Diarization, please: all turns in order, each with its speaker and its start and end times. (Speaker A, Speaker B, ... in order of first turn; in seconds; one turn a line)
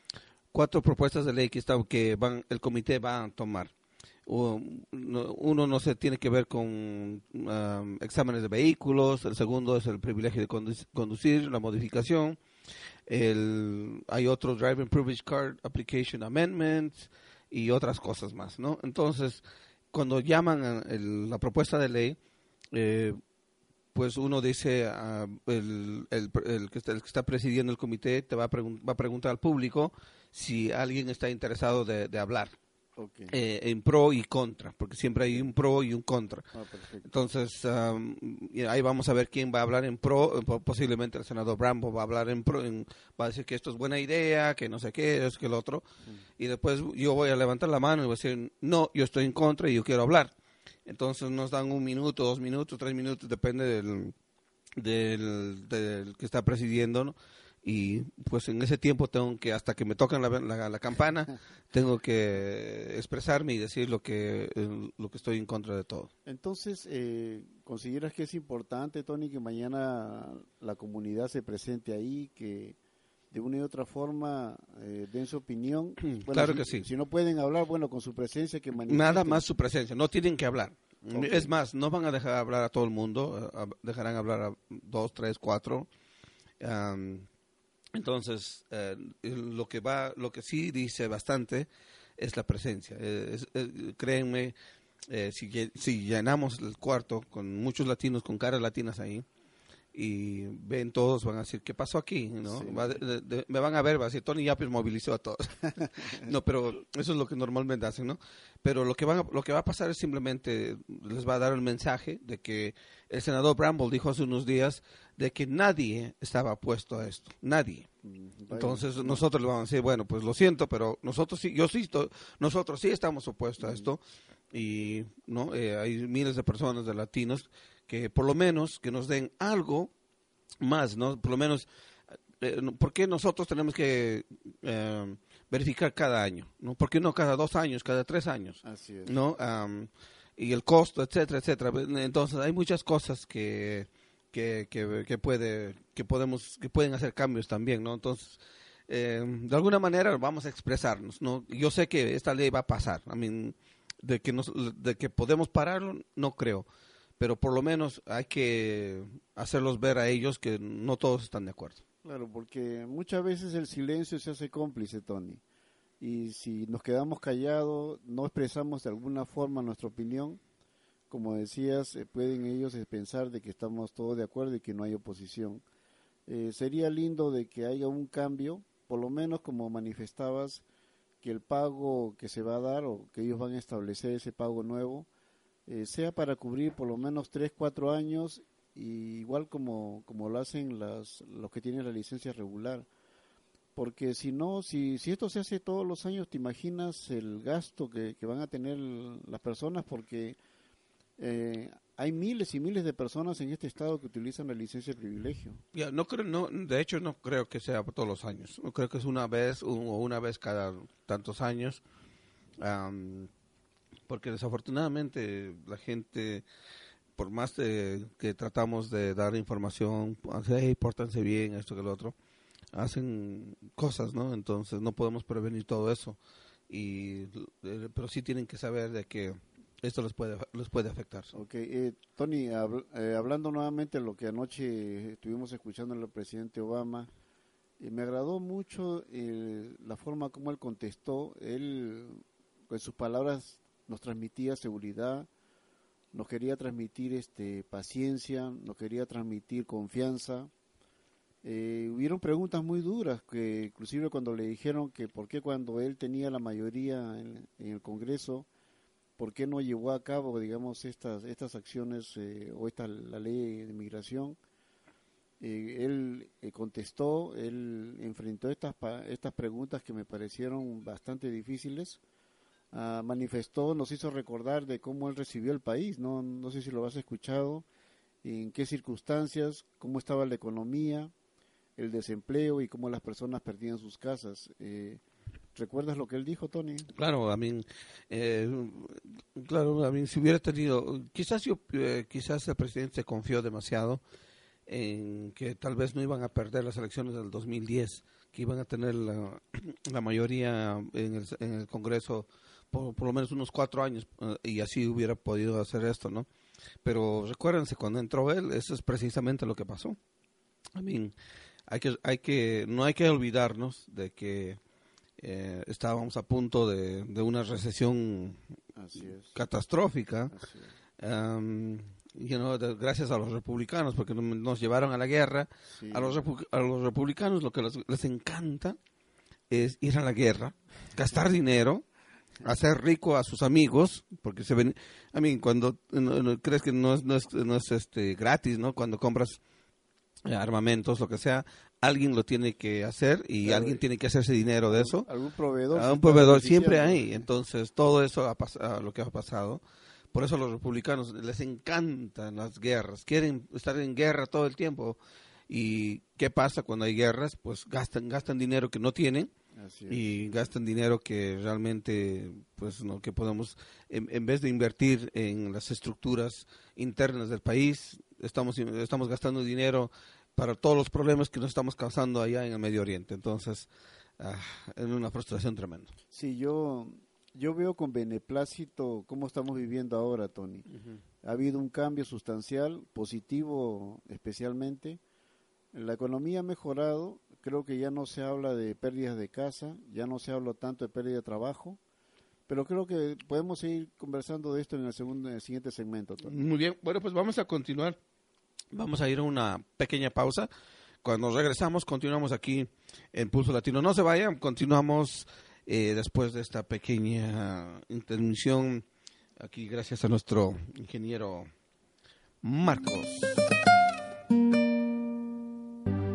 Speaker A: 0.5-3.7
Speaker A: 4.3-12.4
Speaker A: 13.1-22.2
Speaker A: 22.7-23.2
Speaker A: 23.9-32.5
Speaker B: 33.0-33.3
Speaker A: 33.3-36.5
Speaker B: 36.5-37.1
Speaker A: 37.0-45.8
Speaker A: 46.4-50.3
Speaker A: 50.9-54.1
Speaker A: 54.8-66.1
Speaker B: 66.2-72.8
Speaker B: 73.3-79.4
Speaker A: 76.0-76.8
Speaker A: 78.9-85.9
Speaker B: 81.1-81.5
Speaker A: 86.6-87.2
Speaker A: 87.9-94.5
Speaker A: 95.1-99.2
Speaker A: 99.9-117.9
Speaker B: 102.4-103.0
Speaker B: 118.0-119.2
Speaker A: 118.5-124.0
Speaker B: 123.6-123.9
Speaker A: 124.5-129.9
Speaker A: 130.6-131.7
Speaker A: 132.4-156.7
Speaker B: 138.6-139.2
Speaker A: 157.2-161.8
Speaker B: 162.0-165.4
Speaker B: 166.0-170.4
Speaker B: 171.1-175.6
Speaker B: 176.3-180.6
Speaker B: 181.2-185.1
Speaker B: 185.7-192.9
Speaker B: 193.7-200.4
Speaker B: 201.2-205.6
Speaker A: 205.7-211.8
Speaker A: 212.6-213.3
Speaker A: 214.1-216.4
Speaker A: 217.2-222.1
Speaker A: 222.7-226.2
Speaker A: 226.7-231.3
Speaker B: 231.3-237.1
Speaker B: 237.8-245.3
Speaker B: 246.1-250.5
Speaker B: 251.4-258.5
Speaker B: 259.2-264.4
Speaker B: 265.4-272.0
Speaker B: 272.7-277.6
Speaker B: 278.2-281.1
Speaker B: 281.8-285.0
Speaker B: 285.5-286.9
Speaker A: 286.9-294.0
Speaker A: 294.7-306.3
Speaker A: 306.8-310.0
Speaker A: 310.8-311.1
Speaker A: 311.7-314.6
Speaker A: 315.2-318.4
Speaker B: 318.7-319.4
Speaker A: 319.3-320.3
Speaker B: 320.3-320.7
Speaker A: 321.0-328.8
Speaker B: 325.8-326.2
Speaker A: 329.5-331.8
Speaker A: 332.4-339.4
Speaker A: 340.2-345.1
Speaker B: 343.4-343.8
Speaker B: 344.7-347.2
Speaker A: 345.7-349.6
Speaker A: 350.1-355.0
Speaker A: 355.5-359.3
Speaker B: 359.6-360.0
Speaker A: 359.9-373.7
Speaker A: 374.2-375.9
Speaker B: 376.1-380.6
Speaker B: 381.2-385.0
Speaker B: 385.7-391.8
Speaker B: 392.5-396.4
Speaker A: 396.2-398.0
Speaker A: 398.7-400.5
Speaker A: 401.0-408.8
Speaker A: 409.4-411.5
Speaker A: 412.4-413.4